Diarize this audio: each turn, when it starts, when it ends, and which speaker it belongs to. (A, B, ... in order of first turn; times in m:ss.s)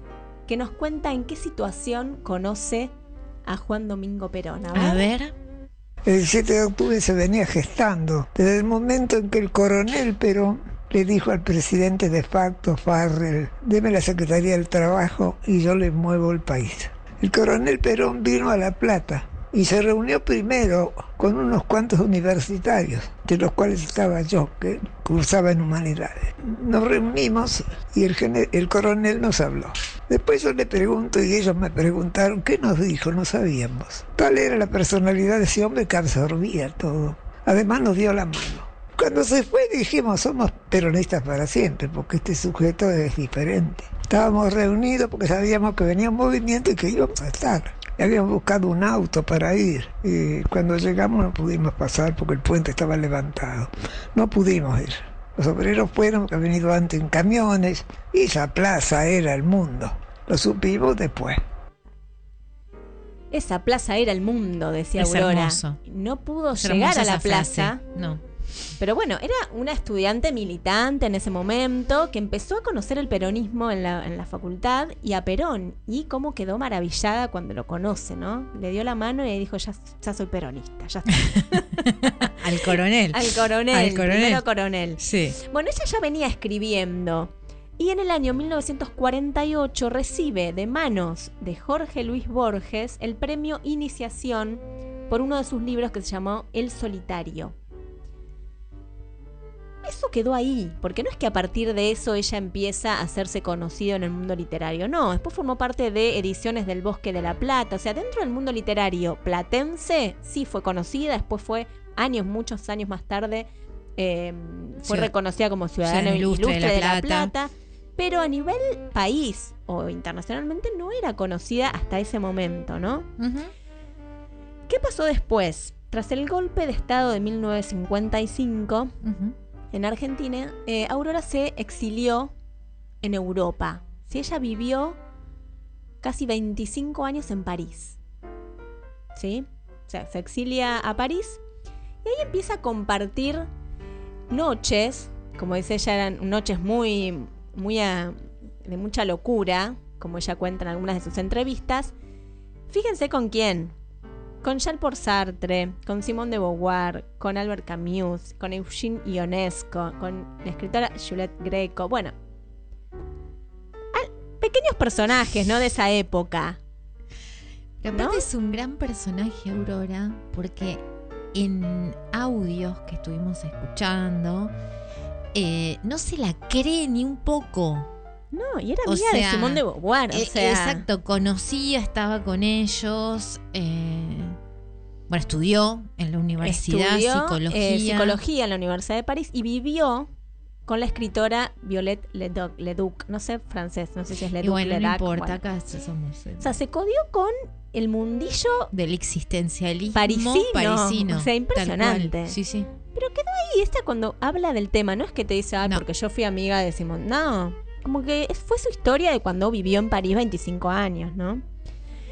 0:00.5-0:02.9 A
0:03.5-0:05.1 A
0:04.7-0:05.3 B
0:06.1-1:01.4 C
1:03.3-1:07.8 A
1:05.0-1:05.8 B
1:06.5-1:08.2 B
1:08.8-1:21.7 A
1:21.8-1:24.4 B
1:23.1-1:37.6 A
1:25.0-1:25.4 B
1:39.8-2:03.1 A
1:54.8-1:55.1 B
1:55.8-1:57.3 B
2:03.2-2:03.5 B
2:04.7-2:08.9 A
2:09.0-2:09.4 B
2:09.7-2:12.3 A
2:13.0-2:15.0 A
2:16.0-2:18.0 A
2:19.2-2:21.4 A
2:22.0-2:23.5 A
2:24.3-2:31.9 A
2:32.7-2:33.8 A
2:34.4-2:42.2 A
2:43.9-2:46.6 A
2:47.8-2:54.5 B
2:47.9-2:48.2 A
2:55.3-2:57.9 B
2:58.3-3:00.8 A
2:58.8-3:04.4 B
3:05.1-3:08.2 B
3:06.4-3:10.1 A
3:10.7-3:15.4 A
3:14.4-3:16.5 B
3:16.4-3:18.7 A
3:18.7-3:22.7 B
3:19.9-3:22.4 A
3:23.0-3:31.4 A